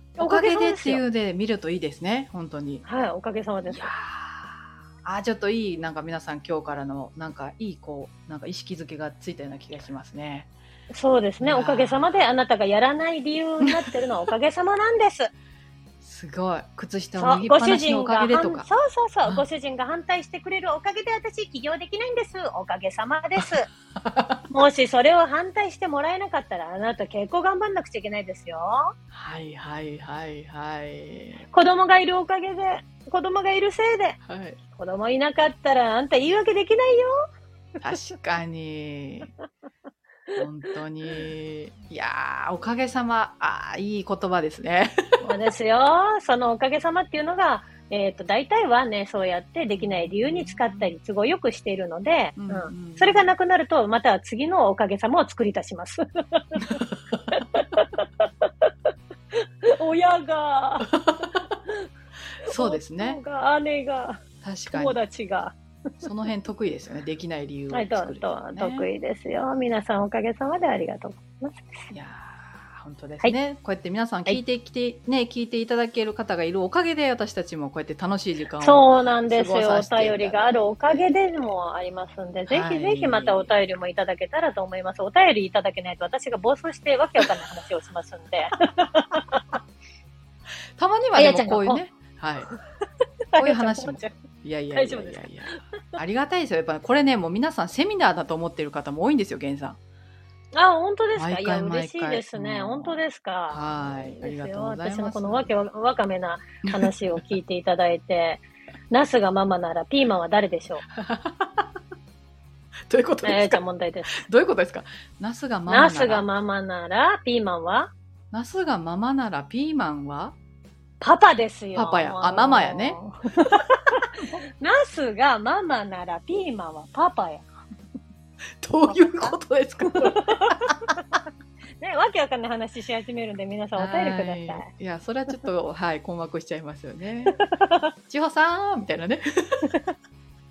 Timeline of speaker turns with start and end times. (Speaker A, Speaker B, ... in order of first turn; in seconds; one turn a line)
Speaker A: 0.2-2.8
Speaker B: 0.2-1.0
Speaker B: 2.8-3.9
Speaker A: 3.7-10.5
Speaker B: 10.9-15.3
Speaker A: 11.4-12.1
Speaker A: 16.0-18.7
Speaker B: 17.2-23.7
Speaker A: 23.4-24.4
Speaker B: 24.5-28.9
Speaker A: 29.1-31.4
Speaker B: 31.5-34.2
Speaker A: 34.2-34.6
Speaker B: 34.7-37.1
Speaker A: 37.8-39.3
Speaker A: 40.4-45.4
Speaker B: 45.2-58.7
Speaker A: 49.8-50.9
Speaker A: 52.4-53.3
Speaker A: 56.8-57.4
Speaker B: 59.3-60.9
Speaker A: 60.9-61.4
Speaker A: 62.4-63.2
Speaker B: 62.4-65.6
Speaker A: 64.4-65.0
Speaker A: 66.0-68.9
Speaker B: 67.7-71.9
Speaker A: 71.9-81.0
Speaker B: 78.6-89.6
Speaker A: 82.5-83.5
Speaker A: 90.8-92.5
Speaker B: 91.2-91.8
Speaker B: 93.3-94.1
Speaker A: 93.4-99.8
Speaker B: 94.7-95.6
Speaker B: 100.5-110.8
Speaker A: 101.2-103.0
Speaker A: 103.5-105.5
Speaker A: 110.9-111.7
Speaker A: 112.9-113.6
Speaker B: 113.2-114.2
Speaker A: 114.1-116.2
Speaker B: 115.7-117.9
Speaker A: 118.3-120.3
Speaker B: 121.0-127.5
Speaker A: 121.7-123.0
Speaker A: 128.6-130.9
Speaker B: 128.8-131.0
Speaker B: 131.8-134.7
Speaker A: 133.8-137.4
Speaker B: 137.5-137.9
Speaker A: 138.1-139.7